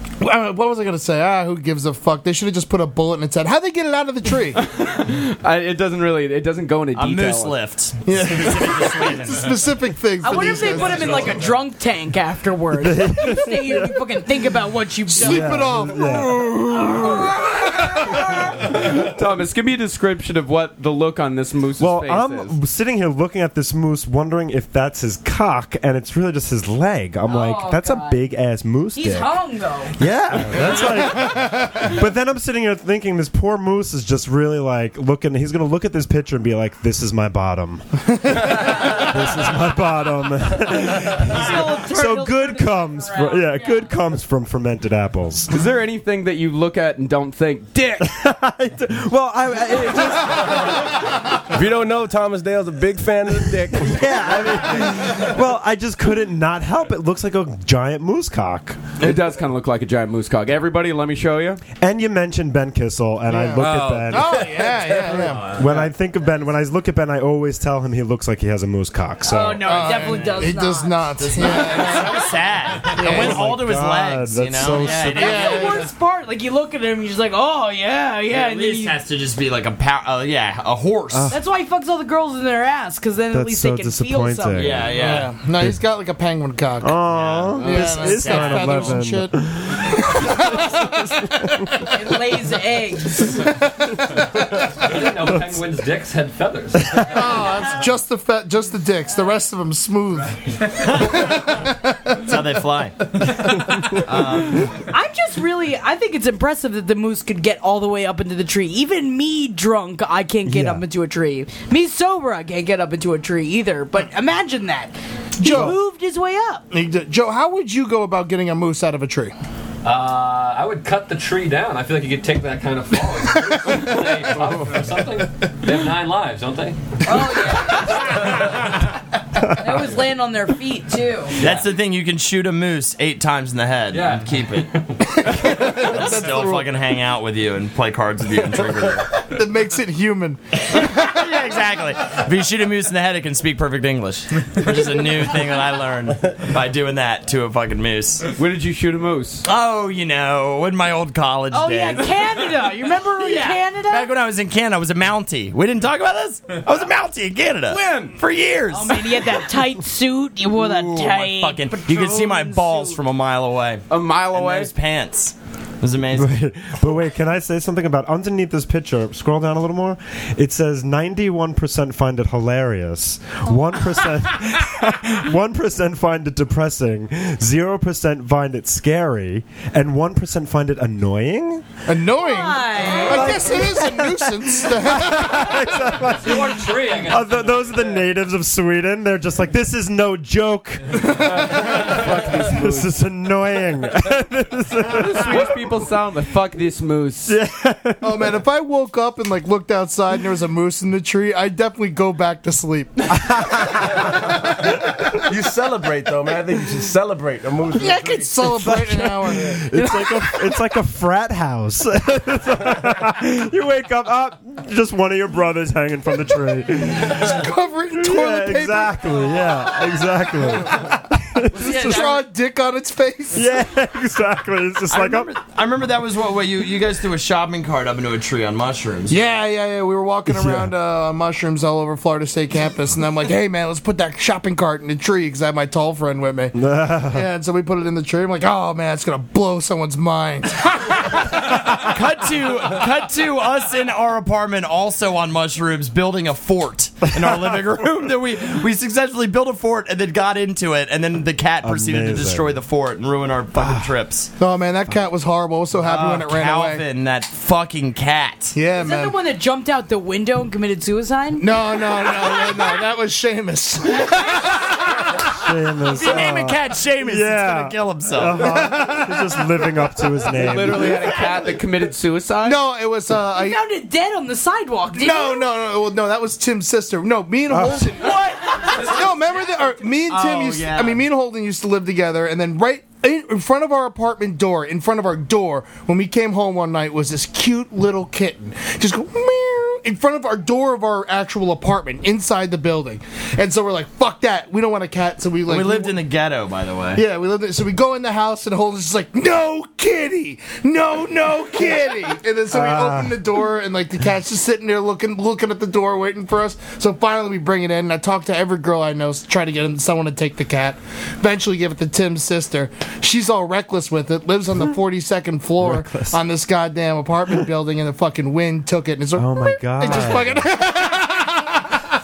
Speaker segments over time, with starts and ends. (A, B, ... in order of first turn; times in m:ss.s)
0:00.2-0:04.6 A
0:04.6-0:07.6 B
0:06.9-0:09.5 C
0:08.1-0:11.5 A
0:10.2-0:15.6 D
0:12.8-0:14.3 E
0:15.1-0:18.4 A
0:15.2-0:17.3 E
0:17.0-0:18.4 D
0:18.6-0:22.6 B
0:21.8-0:29.3 E
0:27.3-0:28.2 D
0:28.9-0:29.9 D
0:30.0-0:45.5 E
0:30.6-0:31.9 A
0:41.2-0:43.9 D
0:45.5-0:48.1 B
0:48.0-0:51.0 E
0:51.5-0:54.1 F
0:53.7-0:58.8 E
0:59.0-1:01.6 B
1:01.8-1:04.7 E
1:03.3-1:05.6 A
1:04.8-1:05.2 F
1:05.2-1:05.9 G
1:05.5-1:09.7 E
1:09.3-1:11.6 D
1:09.6-1:12.3 A
1:10.0-1:10.5 C
1:11.2-1:15.9 C
1:12.9-1:13.5 A
1:13.0-1:15.5 E
1:15.1-1:19.0 D
1:15.2-1:15.9 A
1:18.3-1:21.3 C
1:21.1-1:21.4 E
1:21.3-1:24.8 D
1:23.3-1:25.8 E
1:24.6-1:25.3 C
1:25.0-1:27.0 A
1:26.8-1:31.7 E
1:27.1-1:29.0 C
1:27.6-1:31.9 A
1:31.9-1:33.5 D
1:33.2-1:34.8 A
1:34.8-1:37.4 G
1:36.8-1:37.2 E
1:37.1-1:42.2 A
1:42.2-1:43.0 C
1:43.9-1:44.7 C
1:44.8-1:56.7 D
1:50.4-1:50.8 E
1:55.4-1:55.8 A
1:55.5-1:55.8 E
1:56.7-1:59.3 A
1:59.8-2:07.0 G
2:07.0-2:08.3 D
2:09.5-2:11.4 D
2:11.4-2:14.8 C
2:13.9-2:14.9 G
2:15.2-2:16.8 A
2:15.4-2:19.1 C
2:19.2-2:21.2 A
2:21.0-2:28.3 C
2:28.4-2:29.5 B
2:29.4-2:32.2 C
2:31.5-2:34.1 D
2:33.2-2:39.3 C
2:37.7-2:38.2 B
2:38.7-2:43.0 D
2:40.6-2:46.4 C
2:43.9-2:44.7 B
2:46.1-3:01.7 E
3:01.9-3:05.6 A
3:02.2-3:03.6 D
3:02.9-3:15.7 E
3:06.0-3:08.0 G
3:11.0-3:12.0 A
3:11.2-3:12.9 B
3:14.8-3:17.4 B
3:17.3-3:18.4 E
3:18.0-3:23.2 A
3:23.1-3:24.2 E
3:25.2-3:28.4 F
3:27.7-3:30.2 A
3:28.4-3:37.5 E
3:37.0-3:39.2 A
3:38.0-3:42.1 E
3:40.6-3:40.9 A
3:41.5-3:43.5 A
3:41.7-3:42.1 D
3:43.3-3:45.3 E
3:44.9-3:49.2 C
3:49.1-4:01.4 A
3:50.3-3:50.7 E
3:56.6-3:57.3 E
4:01.6-4:14.3 C
4:07.2-4:07.6 E
4:11.6-4:12.6 E
4:13.5-4:13.9 E
4:14.4-4:16.8 A
4:15.8-4:18.6 C
4:18.5-4:19.2 A
4:18.8-4:21.6 D
4:21.4-4:25.1 A
4:25.3-4:31.2 E
4:25.9-4:28.5 C
4:28.4-4:29.4 A
4:30.3-4:32.6 B
4:32.4-4:33.6 A
4:33.3-4:35.5 D
4:34.9-4:56.0 A
4:37.5-4:38.1 E
4:40.1-4:41.0 C
4:55.5-4:57.0 C
4:57.0-5:21.7 A
5:02.5-5:03.2 E
5:15.6-5:16.2 E
5:19.2-5:20.5 E